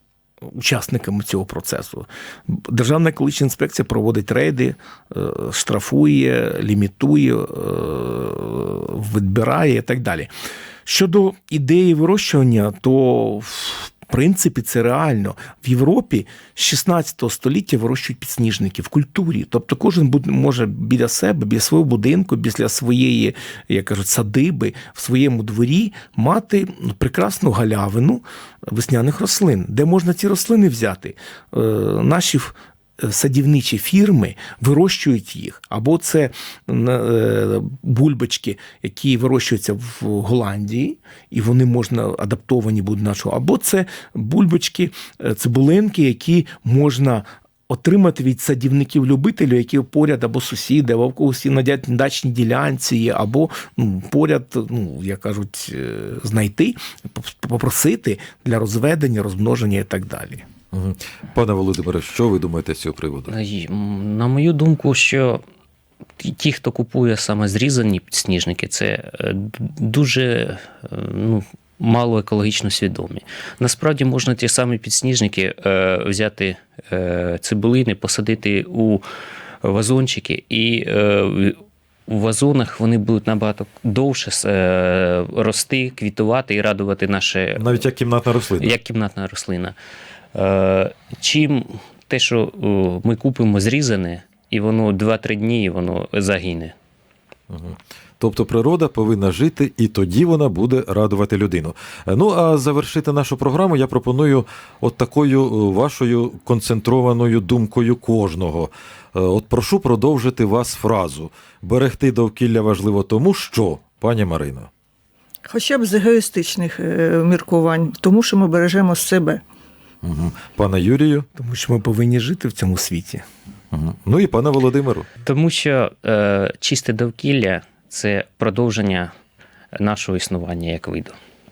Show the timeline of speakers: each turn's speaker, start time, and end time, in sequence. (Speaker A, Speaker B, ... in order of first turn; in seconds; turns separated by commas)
Speaker A: 0.5-10.3, Speaker A: 10.9-60.5, Speaker B: 60.7-63.3, Speaker C: 63.3-65.4, Speaker C: 66.2-79.0, Speaker C: 79.6-87.8, Speaker B: 87.6-88.8, Speaker C: 88.6-89.8, Speaker C: 90.3-96.7, Speaker B: 97.5-114.7, Speaker D: 115.5-119.4, Speaker B: 120.0-121.3, Speaker A: 121.3-123.2, Speaker B: 123.7-125.1, Speaker C: 125.2-129.1, Speaker C: 129.8-131.2